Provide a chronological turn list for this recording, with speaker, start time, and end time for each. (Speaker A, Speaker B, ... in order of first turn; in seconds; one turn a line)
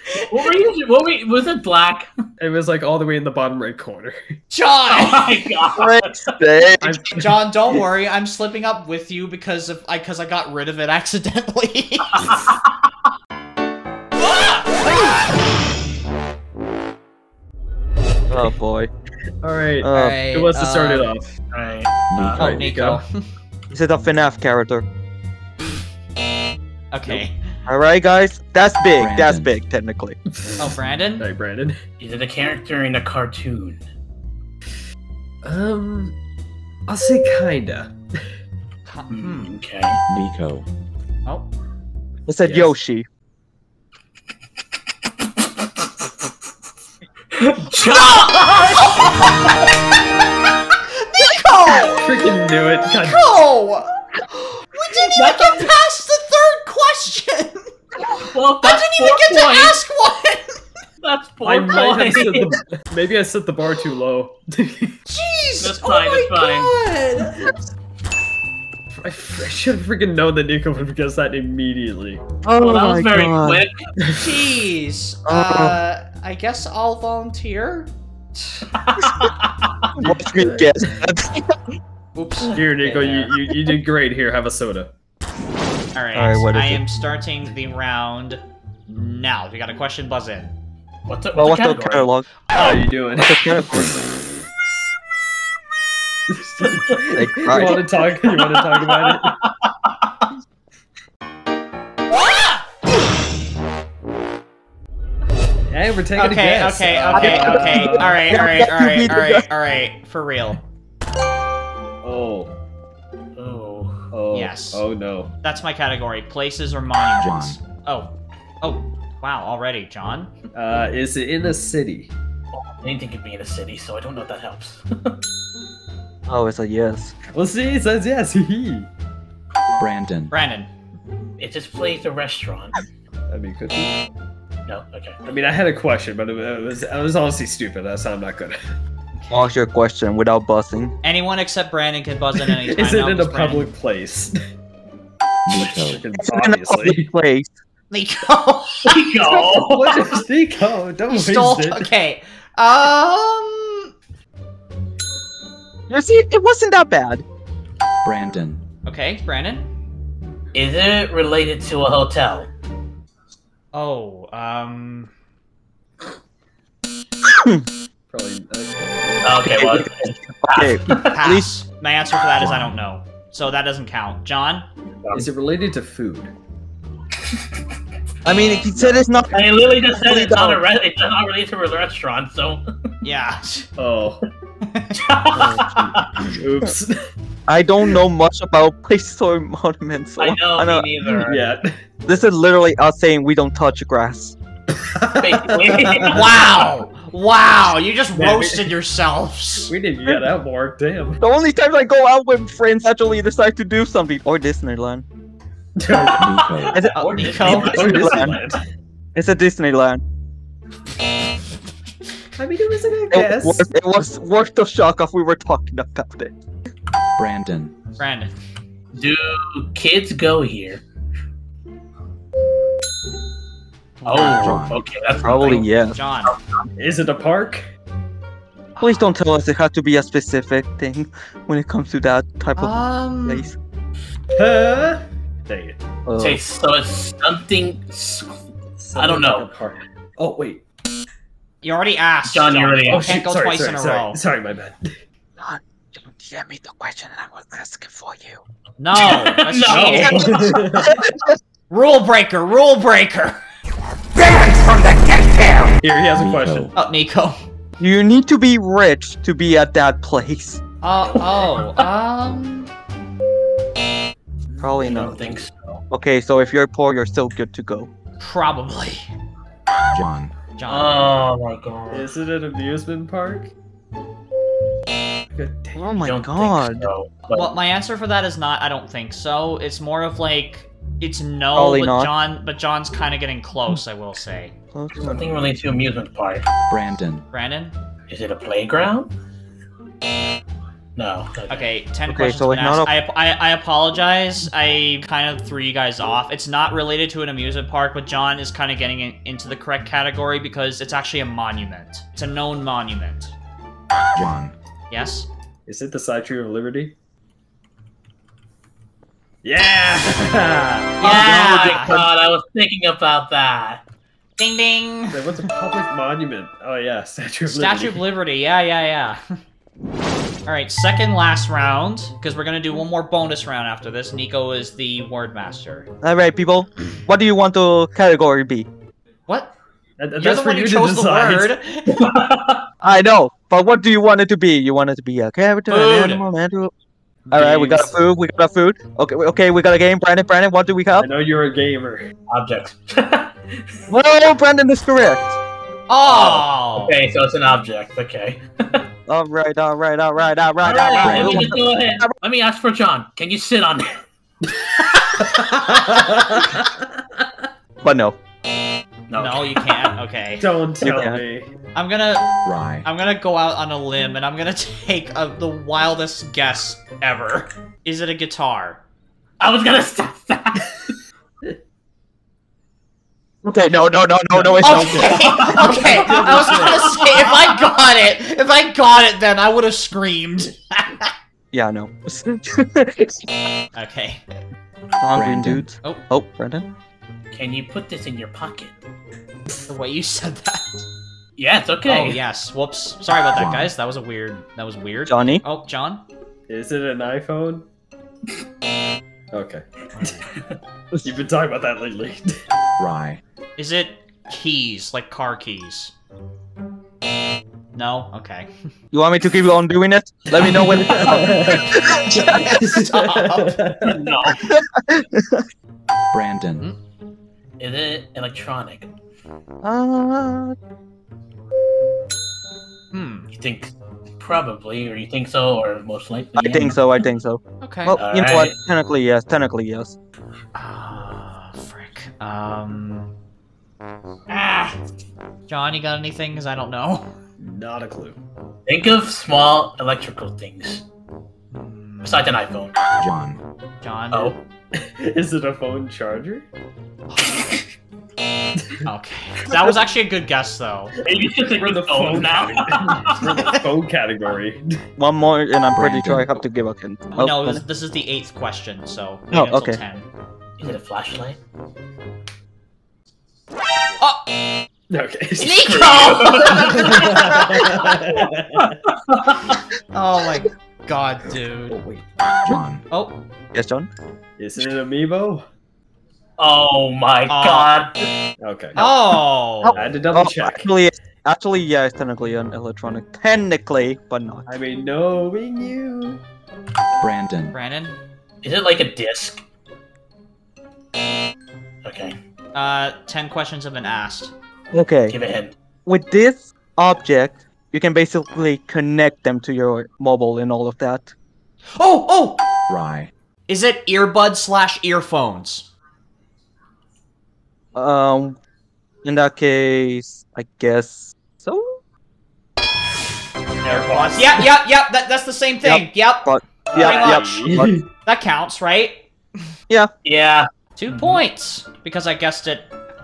Speaker A: 0.2-2.1
Speaker B: 2.4-4.4
Speaker C: 4.5-5.4
Speaker A: 4.9-6.3
Speaker D: 5.8-7.0
Speaker B: 6.8-7.2
Speaker C: 7.0-12.4
Speaker A: 12.2-12.6
Speaker D: 18.3-18.9
Speaker B: 19.4-21.3
Speaker D: 19.8-20.2
Speaker C: 19.9-21.1
Speaker A: 21.5-22.4
Speaker E: 22.1-22.6
Speaker C: 22.4-23.3
Speaker B: 22.4-23.0
Speaker D: 23.7-24.8
Speaker C: 26.9-27.4
Speaker D: 27.7-30.2
Speaker E: 29.0-29.5
Speaker B: 30.3-31.8
Speaker C: 30.6-31.3
Speaker A: 32.0-33.8
Speaker B: 35.4-36.1
Speaker B: 36.9-38.4
Speaker C: 38.9-39.5
Speaker A: 39.1-40.0
Speaker E: 40.1-40.6
Speaker D: 42.3-43.1
Speaker A: 47.3-49.1
Speaker C: 47.9-49.5
Speaker C: 50.7-52.1
Speaker B: 51.9-53.2
Speaker C: 53.0-60.6
Speaker A: 55.0-55.7
Speaker A: 58.1-59.8
Speaker A: 61.0-62.6
Speaker B: 61.4-65.0
Speaker C: 65.0-67.5
Speaker A: 65.6-66.7
Speaker B: 67.2-67.5
Speaker B: 68.9-72.2
Speaker D: 72.4-73.6
Speaker A: 72.5-73.9
Speaker B: 74.0-74.3
Speaker C: 74.1-78.7
Speaker D: 75.2-75.8
Speaker A: 78.8-79.9
Speaker B: 80.0-81.0
Speaker D: 80.0-81.6
Speaker C: 82.1-83.3
Speaker B: 82.5-84.9
Speaker C: 85.9-90.5
Speaker D: 86.1-86.8
Speaker A: 91.1-92.1
Speaker D: 91.3-92.2
Speaker B: 92.5-93.9
Speaker D: 93.1-94.0
Speaker B: 96.3-99.4
Speaker D: 97.1-97.8
Speaker A: 98.2-99.9
Speaker B: 105.7-108.4
Speaker C: 106.1-110.6
Speaker D: 107.2-109.5
Speaker B: 112.0-112.5
Speaker A: 113.4-114.1
Speaker B: 114.1-115.3
Speaker C: 114.3-114.8
Speaker C: 115.4-120.3
Speaker E: 117.2-117.6
Speaker B: 120.5-122.1
Speaker A: 122.5-125.2
Speaker D: 126.3-127.1
Speaker B: 127.3-128.9
Speaker E: 129.8-130.3
Speaker C: 130.3-130.7
Speaker A: 131.4-132.9
Speaker B: 133.3-134.0
Speaker A: 134.7-135.2
Speaker B: 135.2-138.6
Speaker C: 139.1-139.5
Speaker D: 139.3-140.9
Speaker C: 141.0-143.7
Speaker B: 142.5-144.3
Speaker E: 145.4-146.0
Speaker B: 145.8-147.1
Speaker D: 146.2-147.5
Speaker C: 147.9-149.0
Speaker A: 148.8-150.1
Speaker D: 149.2-149.6
Speaker B: 149.6-151.9
Speaker C: 151.1-153.9
Speaker D: 155.9-157.2
Speaker E: 158.0-158.6
Speaker C: 158.8-159.7
Speaker A: 160.5-162.5
Speaker C: 163.7-165.1
Speaker D: 167.2-167.6
Speaker B: 168.1-169.4
Speaker A: 169.2-171.1
Speaker D: 169.4-171.5
Speaker C: 171.0-174.7
Speaker E: 172.4-172.8
Speaker A: 175.0-175.2
Speaker B: 175.1-176.3
Speaker D: 178.2-180.6
Speaker B: 178.7-179.2
Speaker A: 179.3-182.6
Speaker C: 183.0-183.7
Speaker B: 183.8-184.2
Speaker C: 184.6-185.0
Speaker A: 184.9-186.2
Speaker B: 185.3-187.0
Speaker D: 187.5-190.9
Speaker A: 190.2-191.5
Speaker B: 191.2-191.8
Speaker D: 192.1-194.3
Speaker B: 194.7-196.2
Speaker A: 195.1-196.5
Speaker C: 196.0-199.7
Speaker B: 198.2-198.7
Speaker B: 199.7-201.2
Speaker D: 201.2-205.0
Speaker B: 205.8-206.2
Speaker A: 205.9-208.6
Speaker E: 206.2-206.8
Speaker D: 206.7-208.4
Speaker C: 206.9-207.9
Speaker B: 207.1-208.6
Speaker D: 209.1-210.0
Speaker B: 212.3-213.7
Speaker D: 213.1-216.3
Speaker E: 217.2-217.7
Speaker C: 218.0-218.3
Speaker A: 218.9-220.8
Speaker C: 224.0-224.5
Speaker A: 224.0-225.7
Speaker E: 224.3-224.8
Speaker D: 225.2-226.0
Speaker C: 225.5-226.3
Speaker A: 226.2-226.7
Speaker B: 226.8-227.7
Speaker C: 228.8-229.0
Speaker D: 228.8-233.6
Speaker C: 232.6-233.5
Speaker B: 234.3-235.8
Speaker D: 236.1-236.4
Speaker A: 236.2-238.4
Speaker B: 238.8-240.6
Speaker A: 238.9-239.5
Speaker C: 241.6-244.2
Speaker A: 242.3-243.2
Speaker B: 242.8-245.0
Speaker D: 245.4-248.4
Speaker C: 248.8-250.4
Speaker A: 248.9-250.6
Speaker B: 249.7-251.0
Speaker D: 250.3-251.3
Speaker C: 251.7-253.4
Speaker C: 254.2-255.7
Speaker B: 254.3-254.8
Speaker B: 255.8-256.7
Speaker E: 256.1-256.7
Speaker C: 256.7-257.4
Speaker D: 257.8-260.6
Speaker C: 260.8-262.7
Speaker A: 261.1-261.8
Speaker D: 264.6-267.9
Speaker A: 264.8-265.8
Speaker C: 268.2-269.1
Speaker E: 269.9-270.3
Speaker C: 270.6-271.2
Speaker A: 270.7-272.1
Speaker B: 271.9-273.5
Speaker B: 275.3-275.9
Speaker D: 275.8-276.9
Speaker A: 276.0-277.5
Speaker C: 277.3-284.5
Speaker D: 281.5-282.1
Speaker D: 284.7-285.5
Speaker A: 285.0-286.5
Speaker E: 286.7-287.2
Speaker C: 287.3-287.7
Speaker A: 288.1-289.1
Speaker A: 290.9-291.7
Speaker C: 291.5-303.3
Speaker D: 292.1-292.9
Speaker E: 304.1-304.5
Speaker C: 304.9-305.3
Speaker B: 305.6-306.9
Speaker B: 309.4-311.0
Speaker C: 311.0-312.1
Speaker D: 311.0-312.1
Speaker A: 311.0-313.8
Speaker C: 314.4-315.5
Speaker B: 315.1-318.0
Speaker C: 317.5-319.4
Speaker C: 320.4-325.9
Speaker D: 326.0-328.7
Speaker C: 329.3-329.5
Speaker B: 330.0-331.6
Speaker C: 330.2-332.1
Speaker A: 331.9-332.7
Speaker D: 332.8-336.7
Speaker C: 335.7-336.2
Speaker C: 337.3-337.9
Speaker D: 337.3-341.1
Speaker B: 337.4-337.8
Speaker B: 341.0-342.1
Speaker A: 342.3-343.3
Speaker D: 343.9-345.3
Speaker C: 345.9-347.0
Speaker A: 346.0-348.8
Speaker D: 349.1-352.1
Speaker A: 350.6-354.0
Speaker E: 351.0-351.3
Speaker B: 355.2-357.4
Speaker D: 357.8-358.2
Speaker A: 359.1-359.7
Speaker C: 359.2-360.4
Speaker B: 360.4-361.5
Speaker D: 360.8-361.2
Speaker C: 361.7-368.8
Speaker E: 362.4-362.9
Speaker A: 369.4-370.9
Speaker D: 373.4-375.4
Speaker B: 374.3-377.0
Speaker C: 374.6-381.1
Speaker A: 374.9-377.4
Speaker D: 381.5-383.3
Speaker C: 383.7-384.2
Speaker D: 385.0-386.7
Speaker E: 385.1-385.6
Speaker A: 387.3-388.7
Speaker C: 389.7-390.8
Speaker A: 391.4-392.2
Speaker C: 391.8-396.0
Speaker E: 393.3-393.7
Speaker D: 395.1-395.4
Speaker B: 396.5-397.6
Speaker B: 399.3-400.2
Speaker C: 399.9-400.2
Speaker B: 401.0-402.4
Speaker E: 402.8-403.2
Speaker C: 403.6-405.9
Speaker C: 407.7-408.5
Speaker D: 408.9-412.6
Speaker B: 410.4-414.2
Speaker C: 412.2-413.6
Speaker A: 413.9-414.5
Speaker D: 414.3-415.4
Speaker E: 416.1-416.6
Speaker A: 417.6-418.9
Speaker D: 419.6-420.6
Speaker C: 422.9-423.3
Speaker A: 423.3-426.8
Speaker D: 426.4-429.9
Speaker C: 427.6-428.0
Speaker A: 428.0-428.5
Speaker C: 430.5-433.1
Speaker C: 434.3-434.8
Speaker C: 435.5-437.1
Speaker B: 437.4-438.2
Speaker A: 438.7-440.8
Speaker C: 441.5-442.2
Speaker A: 442.0-442.7
Speaker E: 443.0-443.4
Speaker C: 443.8-444.4
Speaker A: 444.1-444.4
Speaker B: 444.7-446.4
Speaker C: 447.1-447.4
Speaker B: 448.6-448.8
Speaker C: 448.8-450.9
Speaker A: 451.0-453.4
Speaker B: 451.6-454.8
Speaker D: 455.0-457.6
Speaker E: 455.8-456.3
Speaker C: 457.1-460.1
Speaker D: 459.3-459.8
Speaker A: 460.6-461.4
Speaker C: 464.0-464.3
Speaker B: 464.9-468.8
Speaker C: 465.4-467.1
Speaker A: 465.7-467.5
Speaker A: 468.6-469.6
Speaker C: 469.9-471.8
Speaker B: 471.7-472.1
Speaker E: 472.4-472.8
Speaker C: 472.9-473.2
Speaker D: 473.5-473.9
Speaker B: 474.4-475.4
Speaker A: 476.4-477.9
Speaker C: 477.3-477.9
Speaker B: 478.4-478.9
Speaker C: 478.8-479.7
Speaker D: 479.6-484.5
Speaker B: 479.7-480.7
Speaker B: 484.5-486.2
Speaker E: 487.0-487.5
Speaker C: 487.5-488.0
Speaker A: 488.4-489.4
Speaker A: 491.8-492.2
Speaker C: 492.5-494.3
Speaker D: 494.7-495.1
Speaker A: 495.1-495.5
Speaker D: 495.9-501.1
Speaker C: 501.7-502.4
Speaker E: 502.7-503.1
Speaker C: 503.5-505.7
Speaker D: 507.7-508.4
Speaker D: 509.0-511.8
Speaker C: 513.6-517.5
Speaker B: 513.6-514.5
Speaker D: 515.6-517.7
Speaker B: 516.7-517.9
Speaker C: 518.0-519.0
Speaker A: 520.0-521.2
Speaker C: 520.8-522.7